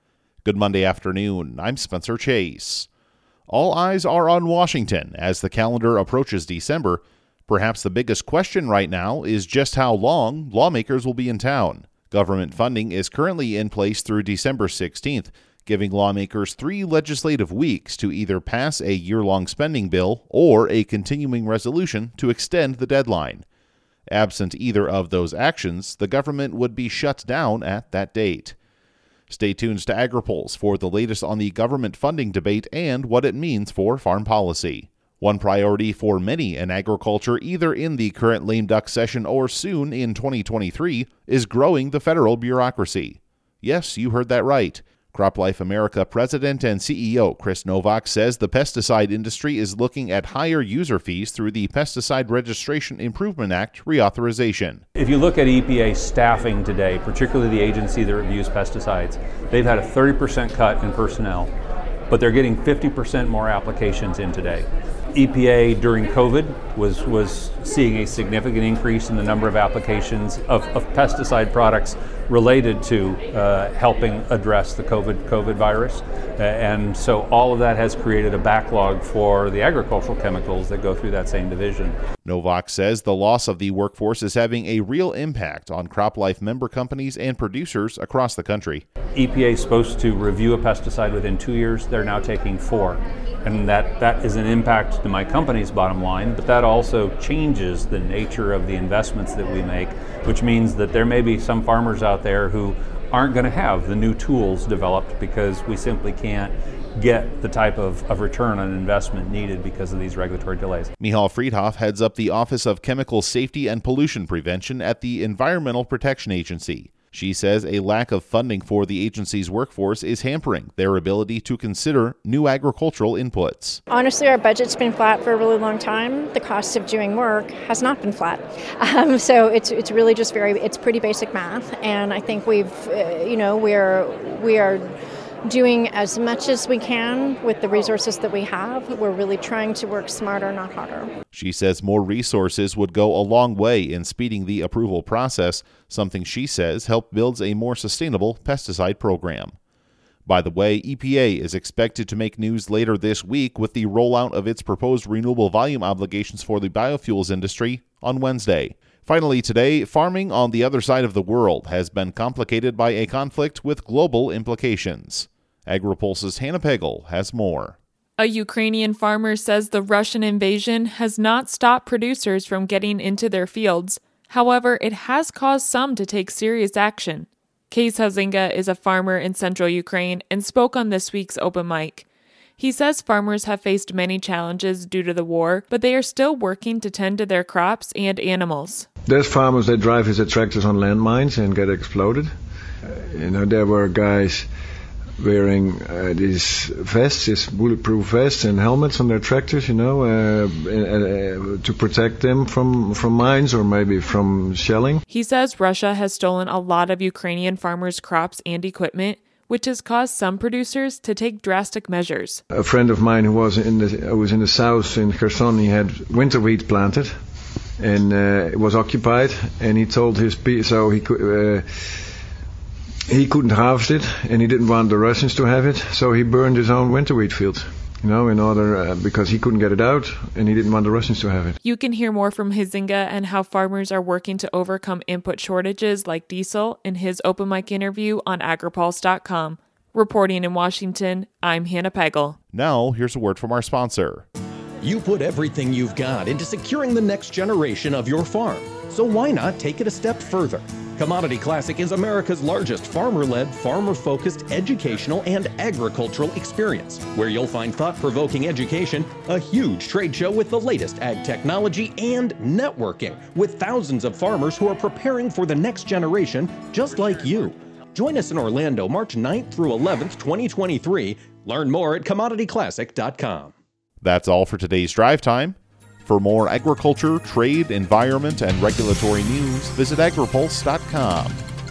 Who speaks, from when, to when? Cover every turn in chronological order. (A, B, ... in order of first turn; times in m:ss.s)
0:00.4-0:02.9 A
0:03.5-0:23.4 A
0:24.1-0:28.6 A
0:29.3-0:54.8 A
0:55.0-1:01.5 B
1:02.1-1:21.9 B
1:22.2-1:28.8 A
1:29.2-1:50.9 B
1:51.0-2:03.8 A
2:03.9-2:14.8 C
2:15.5-2:21.1 C
2:21.3-2:29.6 A
2:30.3-2:47.8 A
2:48.2-3:02.1 D
3:02.6-3:08.9 D
3:09.1-3:12.3 E
3:12.9-3:14.5 E
3:15.2-3:25.0 E
3:25.1-3:32.4 D
3:32.5-3:37.1 E
3:37.8-3:41.7 E
3:43.1-3:51.6 E
3:51.6-4:02.4 D
4:02.5-4:04.3 A
4:04.8-4:33.5 F
4:34.0-4:41.4 A